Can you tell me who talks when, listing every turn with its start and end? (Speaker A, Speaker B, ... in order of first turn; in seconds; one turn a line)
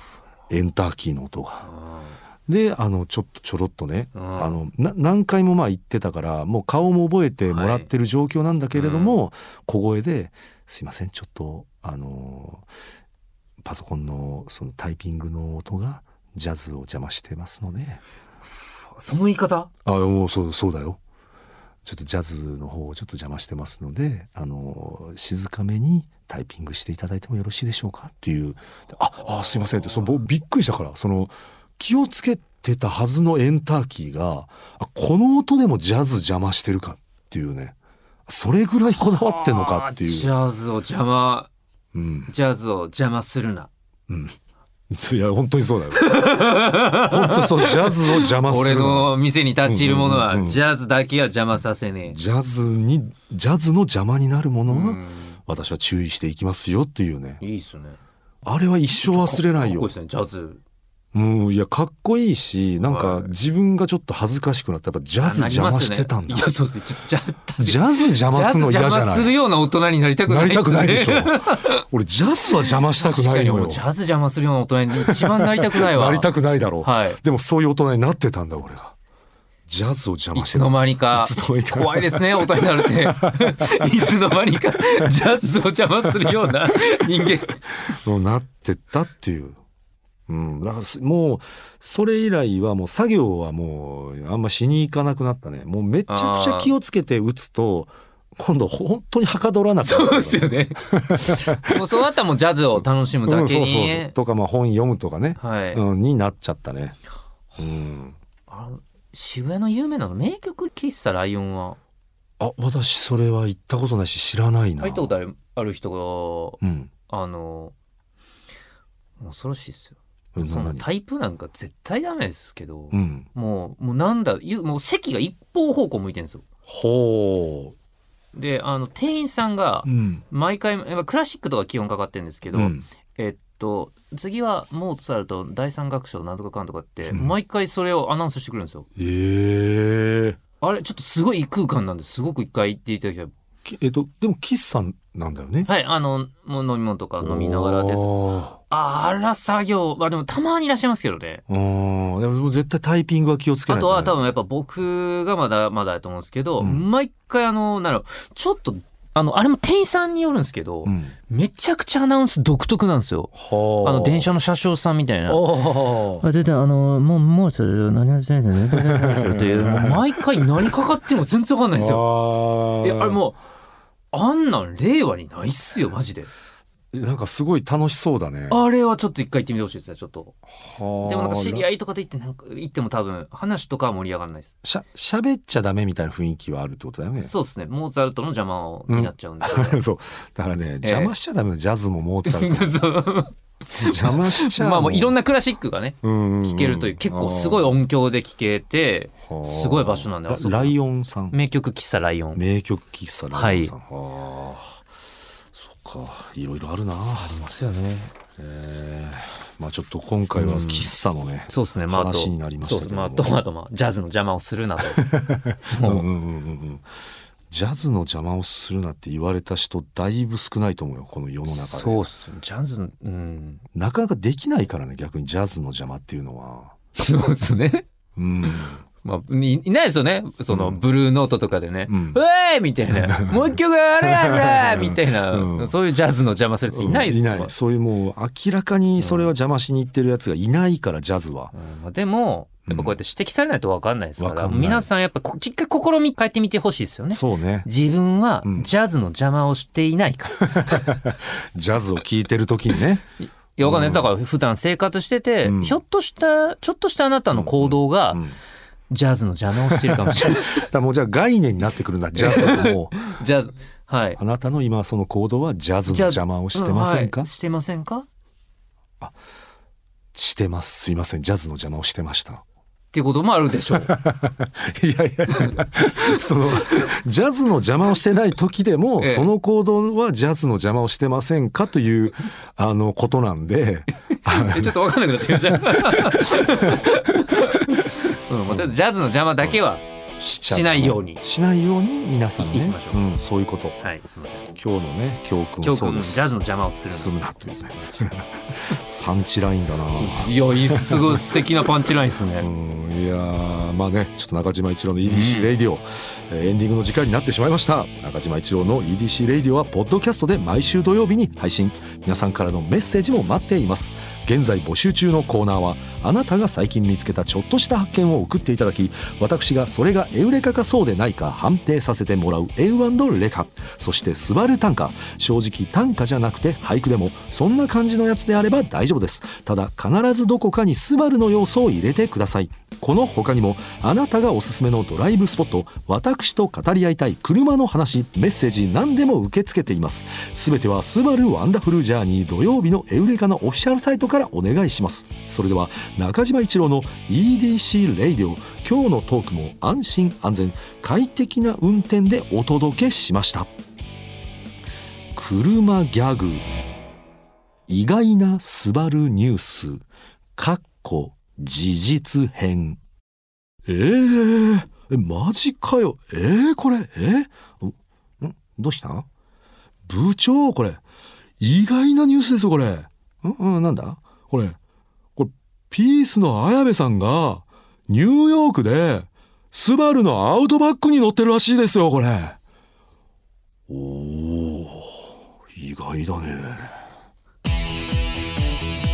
Speaker A: 0.5-1.7
Speaker B: 1.6-2.2
Speaker A: 2.5-12.7
Speaker B: 4.1-4.6
Speaker B: 7.5-7.9
Speaker B: 8.7-9.2
Speaker A: 13.6-18.0
Speaker B: 18.9-19.7
Speaker A: 19.8-21.0
Speaker A: 21.8-37.7
Speaker A: 38.3-40.3
Speaker B: 39.0-41.5
Speaker A: 41.9-42.3
Speaker B: 42.3-43.7
Speaker A: 44.1-44.4
Speaker A: 44.9-46.1
Speaker B: 45.9-52.2
Speaker A: 47.1-49.1
Speaker A: 49.6-50.6
Speaker A: 52.1-57.4
Speaker B: 54.7-55.4
Speaker B: 57.4-58.0
Speaker A: 58.4-59.9
Speaker B: 58.9-60.6
Speaker A: 61.1-66.5
Speaker B: 62.8-63.3
Speaker B: 65.2-71.8
Speaker A: 67.6-69.3
Speaker A: 70.3-73.8
Speaker B: 72.5-76.3
Speaker A: 75.0-78.9
Speaker B: 76.8-77.2
Speaker A: 79.7-84.1
Speaker B: 80.3-87.6
Speaker A: 86.1-86.3
Speaker A: 87.9-89.6
Speaker A: 90.3-101.8
Speaker B: 96.1-96.7
Speaker B: 99.8-104.1
Speaker A: 102.8-107.0
Speaker B: 105.4-105.8
Speaker A: 107.6-108.2
Speaker B: 108.5-111.8
Speaker A: 112.4-115.1
Speaker B: 114.8-117.7
Speaker A: 116.6-116.9
Speaker B: 119.2-126.4
Speaker A: 120.3-120.8
Speaker A: 122.9-123.3
Speaker A: 126.7-127.7
Speaker B: 128.3-138.9
Speaker A: 129.8-130.2
Speaker A: 132.5-132.8
Speaker A: 137.1-137.3
Speaker A: 138.9-140.4
Speaker B: 140.6-143.3
Speaker A: 143.6-145.7
Speaker B: 145.6-148.1
Speaker A: 147.2-148.6
Speaker B: 148.7-151.4
Speaker A: 151.5-154.2
Speaker B: 153.7-165.5
Speaker A: 156.6-156.8
Speaker A: 160.8-161.1
Speaker A: 163.3-164.3
Speaker A: 165.3-166.2
Speaker B: 166.2-172.1
Speaker A: 168.7-170.7
Speaker A: 171.7-173.2
Speaker B: 172.8-173.4
Speaker B: 174.1-176.3
Speaker A: 176.9-178.6
Speaker B: 178.5-180.3
Speaker A: 180.5-181.7
Speaker B: 181.0-184.5
Speaker A: 184.6-187.3
Speaker B: 187.2-189.8
Speaker A: 188.9-192.8
Speaker B: 190.8-191.1
Speaker B: 192.2-200.7
Speaker A: 193.8-195.1
Speaker A: 196.0-197.8
Speaker A: 199.2-201.3
Speaker B: 201.3-202.4
Speaker A: 202.3-204.8
Speaker B: 203.3-203.7
Speaker A: 205.5-207.4
Speaker B: 207.2-208.1
Speaker A: 208.4-213.4
Speaker B: 210.3-210.9
Speaker B: 211.5-215.1
Speaker A: 214.8-216.8
Speaker B: 215.7-216.1
Speaker A: 217.5-222.0
Speaker B: 221.5-223.6
Speaker A: 223.7-226.7
Speaker B: 227.0-227.8
Speaker A: 228.2-228.8
Speaker B: 229.0-237.5
Speaker A: 230.5-230.8
Speaker A: 231.9-232.2
Speaker A: 232.9-235.7
Speaker A: 236.7-241.5
Speaker B: 239.0-239.3
Speaker B: 241.5-250.9
Speaker A: 242.7-242.9
Speaker A: 244.2-244.9
Speaker A: 247.1-247.7
Speaker A: 250.4-253.1
Speaker B: 253.5-258.2
Speaker A: 253.6-254.1
Speaker A: 255.4-255.8
Speaker A: 257.3-258.4
Speaker B: 258.9-260.7
Speaker A: 259.6-263.1
Speaker B: 262.1-264.2
Speaker A: 264.2-267.3
Speaker B: 265.9-268.1
Speaker A: 270.1-272.4
Speaker B: 272.9-273.9
Speaker A: 273.7-286.9
Speaker B: 275.3-276.9
Speaker B: 279.0-279.3
Speaker B: 284.1-289.8
Speaker A: 287.9-288.7
Speaker A: 290.2-293.8
Speaker B: 290.4-291.2
Speaker B: 292.4-293.0
Speaker B: 293.8-294.5
Speaker A: 294.5-296.4
Speaker B: 295.6-298.1
Speaker A: 296.9-301.4
Speaker B: 299.9-302.5
Speaker A: 302.4-353.5
Speaker B: 305.0-305.5
Speaker A: 355.1-356.4
Speaker A: 357.7-359.8
Speaker A: 360.4-362.8
Speaker A: 363.6-369.1
Speaker A: 369.9-370.8
Speaker A: 371.4-374.6
Speaker A: 375.1-382.4
Speaker A: 383.7-386.8